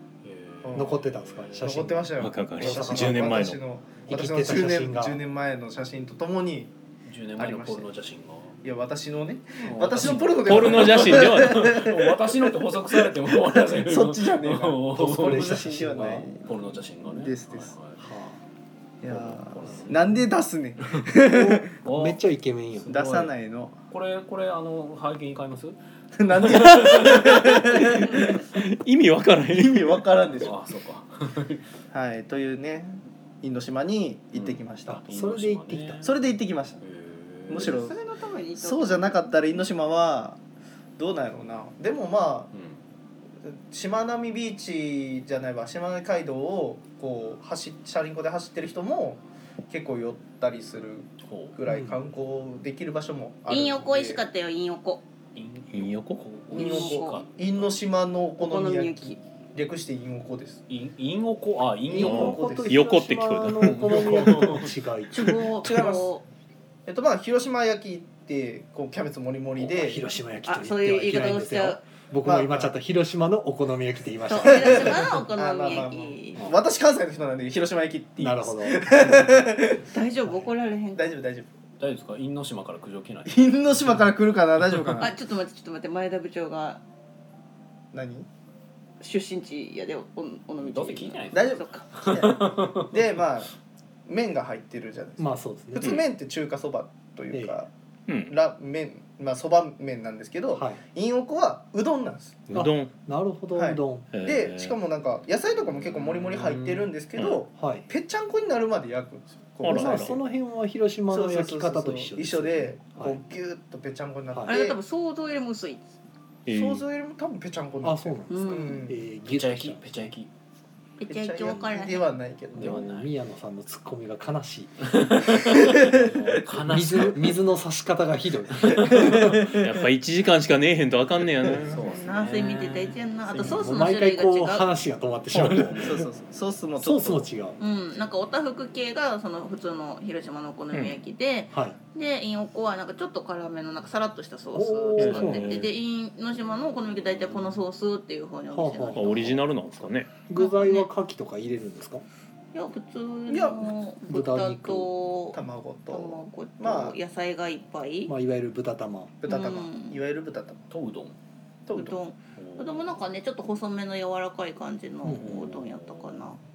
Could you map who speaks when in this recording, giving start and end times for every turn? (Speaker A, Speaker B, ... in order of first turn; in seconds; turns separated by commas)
Speaker A: 0.2-1.9, Speaker B: 0.6-1.0, Speaker C: 0.7-3.5, Speaker B: 1.6-6.7, Speaker D: 2.2-3.6, Speaker C: 4.1-5.2, Speaker A: 7.0-8.6, Speaker B: 7.4-7.9, Speaker B: 8.6-17.7, Speaker A: 9.6-15.7, Speaker D: 10.0-11.7, Speaker C: 14.9-16.3, Speaker A: 16.3-18.1, Speaker C: 18.0-18.4, Speaker B: 19.0-21.7, Speaker A: 19.0-20.2, Speaker C: 21.2-22.9, Speaker A: 21.8-22.2, Speaker A: 22.7-23.3, Speaker B: 22.9-23.8, Speaker A: 23.9-25.8, Speaker B: 26.2-28.4, Speaker A: 26.4-27.5, Speaker D: 26.5-30.0, Speaker B: 29.5-30.5, Speaker A: 30.4-31.7, Speaker B: 31.9-35.0, Speaker A: 34.3-36.2, Speaker C: 34.9-36.1, Speaker B: 36.0-36.8, Speaker A: 36.8-37.9, Speaker B: 37.5-38.0, Speaker E: 37.6-39.2, Speaker B: 38.6-40.4, Speaker B: 41.0-42.5, Speaker A: 42.5-42.8, Speaker B: 43.4-54.2, Speaker A: 51.2-51.6, Speaker C: 51.6-52.0, Speaker E: 53.5-55.0, Speaker A: 55.3-57.8, Speaker D: 55.7-56.2, Speaker B: 56.5-60.6, Speaker E: 56.5-57.2, Speaker E: 58.4-59.2, Speaker A: 60.7-62.5, Speaker C: 61.9-65.5, Speaker B: 61.9-62.9, Speaker D: 62.0-64.3, Speaker A: 63.6-64.7, Speaker E: 65.1-66.2, Speaker B: 65.6-66.1, Speaker B: 66.9-70.0, Speaker C: 69.6-75.1, Speaker E: 70.5-71.8, Speaker B: 72.2-72.7, Speaker E: 74.2-76.5, Speaker B: 74.4-79.9, Speaker C: 78.2-79.2, Speaker E: 79.9-81.1, Speaker B: 80.9-81.5, Speaker A: 81.8-84.0, Speaker B: 83.3-85.1, Speaker E: 85.0-86.8, Speaker B: 87.9-88.3, Speaker E: 89.0-91.9, Speaker A: 90.6-93.0, Speaker B: 91.3-93.5, Speaker B: 94.0-97.7, Speaker C: 95.2-96.0, Speaker D: 95.8-96.0, Speaker D: 98.1-98.4, Speaker B: 98.3-102.5, Speaker C: 100.5-100.8, Speaker D: 102.5-102.9, Speaker C: 102.5-104.1, Speaker B: 103.5-110.2, Speaker D: 104.1-104.8, Speaker A: 105.6-106.9, Speaker D: 107.2-107.4, Speaker C: 107.5-107.9, Speaker D: 109.6-110.2, Speaker C: 109.6-113.2, Speaker B: 111.1-114.8, Speaker E: 114.5-115.9, Speaker D: 116.5-116.8, Speaker B: 116.5-119.0, Speaker C: 117.8-120.1, Speaker E: 118.3-118.9, Speaker A: 119.2-120.3, Speaker E: 121.0-122.1, Speaker B: 121.1-122.8, Speaker A: 122.5-123.2, Speaker C: 122.5-125.0, Speaker A: 124.8-127.4, Speaker B: 125.6-126.1, Speaker C: 126.0-129.4, Speaker A: 128.6-129.2, Speaker B: 128.8-129.5, Speaker D: 129.6-131.9, Speaker A: 131.6-133.0, Speaker E: 131.8-134.7, Speaker C: 133.3-136.1, Speaker D: 135.3-135.7, Speaker A: 135.6-135.9, Speaker B: 135.8-137.2, Speaker C: 136.8-137.6, Speaker E: 137.6-149.3, Speaker D: 140.7-141.0, Speaker C: 141.5-141.8, Speaker C: 144.5-145.7, Speaker D: 145.0-145.7, Speaker C: 148.5-149.4, Speaker D: 148.9-150.1, Speaker C: 150.2-152.0, Speaker E: 150.3-150.9, Speaker E: 152.5-158.1, Speaker B: 153.3-153.7, Speaker C: 154.1-154.9, Speaker B: 155.3-156.9, Speaker C: 158.1-159.2, Speaker B: 159.2-160.6, Speaker E: 159.2-160.0, Speaker A: 160.7-161.2, Speaker B: 161.7-162.0, Speaker E: 161.7-166.4, Speaker A: 162.3-163.0, Speaker C: 165.0-165.5, Speaker A: 165.2-166.3